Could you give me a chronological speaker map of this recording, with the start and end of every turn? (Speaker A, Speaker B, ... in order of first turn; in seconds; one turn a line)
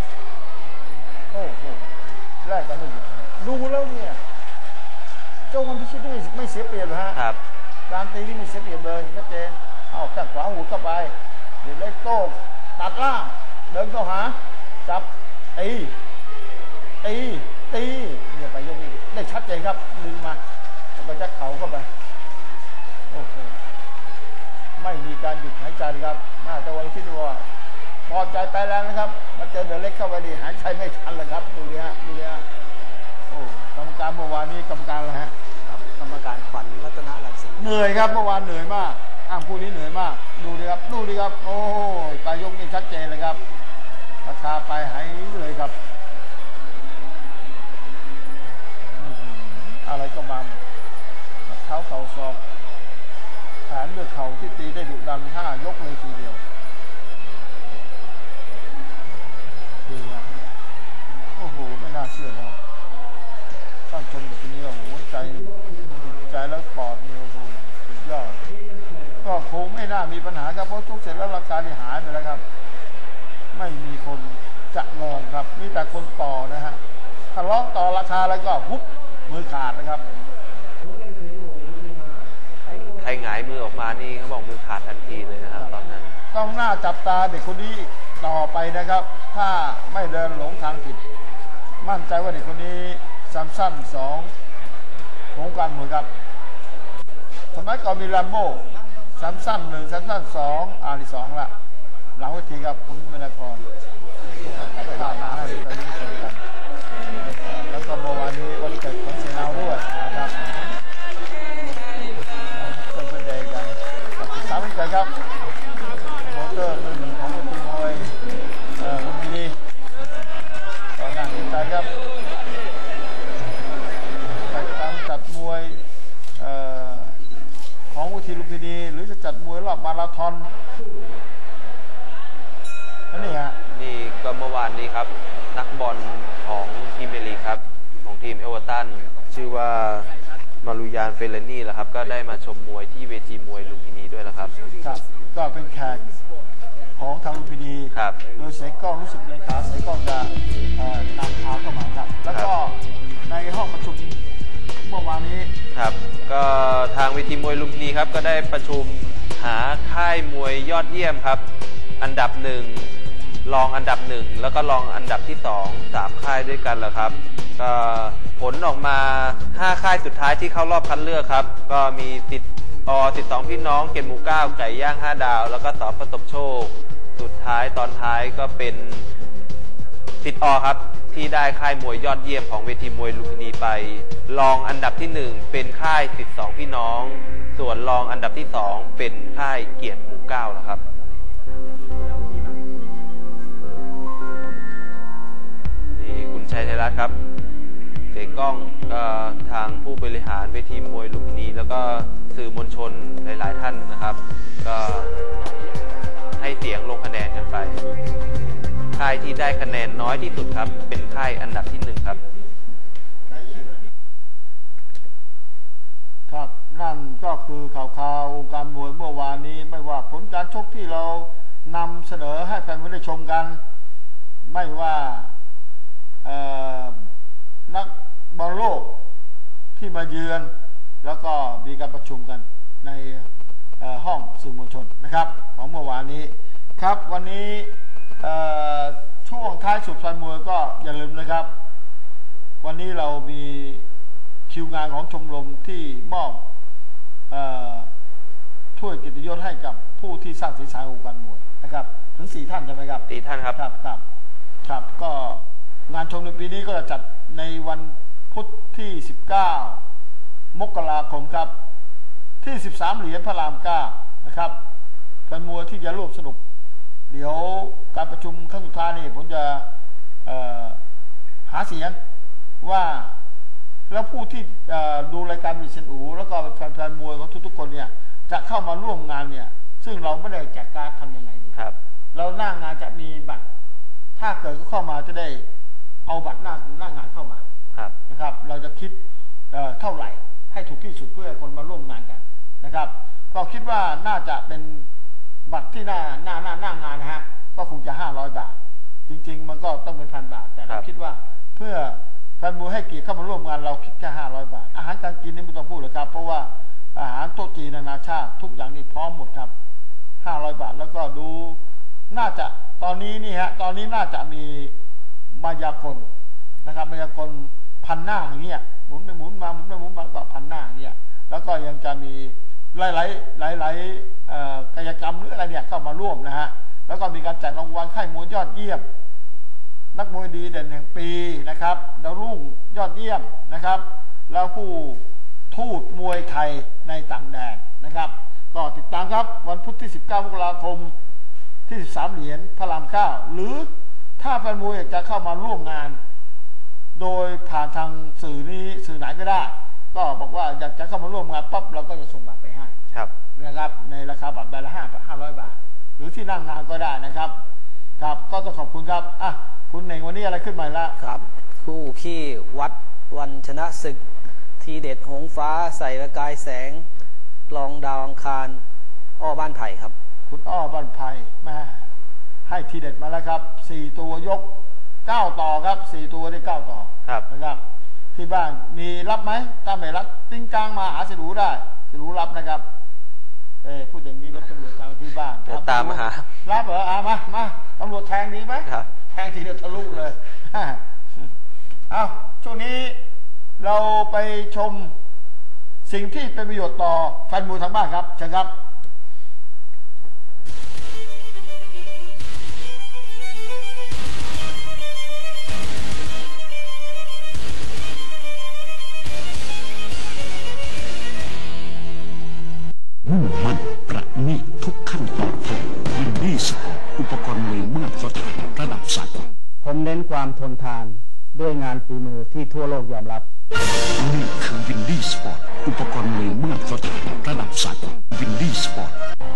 Speaker A: 1.3-4.2
Speaker A: 5.5-7.2
Speaker A: 7.9-16.0
Speaker A: 17.0-20.4
Speaker A: 20.9-21.9
Speaker A: 23.1-23.6
Speaker A: 24.8-27.5
Speaker A: 28.1-32.4
Speaker A: 33.3-35.3
Speaker B: 35.7-37.7
Speaker A: 37.6-43.4
Speaker A: 44.2-45.8
Speaker A: 48.9-50.6
Speaker A: 51.5-52.4
Speaker A: 53.7-56.4
Speaker A: 59.9-60.3
Speaker A: 61.4-62.6
Speaker A: 63.9-68.4
Speaker A: 69.2-72.4
Speaker A: 73.5-76.8
Speaker A: 77.3-80.0
Speaker C: 82.7-86.1
Speaker A: 86.3-91.0
Speaker A: 91.8-94.3
Speaker A: 95.3-96.1
Speaker A: 97.5-101.5
Speaker A: 102.2-103.7
Speaker A: 104.5-106.4
Speaker A: 107.3-110.6
Speaker A: 112.5-115.1
Speaker A: 116.2-118.2
Speaker A: 118.8-119.6
Speaker A: 121.0-121.9
Speaker A: 124.5-125.8
Speaker A: 126.4-127.2
Speaker A: 127.9-130.5
Speaker A: 133.1-133.6
Speaker C: 133.2-140.1
Speaker C: 140.6-144.5
Speaker A: 144.8-146.0
Speaker A: 147.0-154.2
Speaker A: 154.8-155.5
Speaker C: 155.8-161.4
Speaker C: 162.0-162.9
Speaker C: 163.4-179.1
Speaker C: 180.2-190.8
Speaker C: 196.0-197.2
Speaker C: 198.1-205.1
Speaker C: 206.4-207.8
Speaker C: 208.9-212.2
Speaker A: 213.3-213.7
Speaker A: 216.3-223.6
Speaker A: 224.5-225.3
Speaker A: 226.2-227.0
Speaker A: 227.7-229.0
Speaker A: 229.8-230.5
Speaker A: 231.0-233.3
Speaker A: 233.8-237.7
Speaker A: 238.2-241.5
Speaker A: 242.6-243.8
Speaker A: 244.5-246.5
Speaker A: 247.3-247.9
Speaker A: 248.8-254.0
Speaker C: 253.1-253.6
Speaker A: 254.6-259.8
Speaker A: 260.5-261.5
Speaker A: 262.4-264.6
Speaker A: 265.3-266.4
Speaker A: 267.1-269.7
Speaker A: 270.3-270.8
Speaker A: 271.5-272.0
Speaker A: 272.6-273.1
Speaker A: 273.9-281.6
Speaker A: 282.1-283.4
Speaker A: 284.2-285.5
Speaker A: 286.1-287.4
Speaker A: 288.1-289.0
Speaker A: 289.5-294.9
Speaker A: 295.5-298.6
Speaker A: 299.1-309.5
Speaker A: 310.2-311.6
Speaker A: 312.1-314.7
Speaker A: 315.3-316.1
Speaker A: 316.6-328.8
Speaker A: 329.9-340.9
Speaker A: 341.7-346.0
Speaker A: 347.0-352.8
Speaker A: 353.4-357.4
Speaker A: 358.0-361.0
Speaker B: 361.0-364.0
Speaker B: 364.6-366.9
Speaker B: 367.5-368.6
Speaker B: 369.2-369.9
Speaker A: 370.3-371.9
Speaker A: 372.5-377.6
Speaker A: 378.1-382.6
Speaker A: 383.6-391.2
Speaker C: 385.5-386.3
Speaker A: 391.9-393.0
Speaker A: 393.6-394.9
Speaker A: 395.9-398.5
Speaker D: 413.1-419.3
Speaker E: 419.6-423.3
Speaker D: 424.0-429.0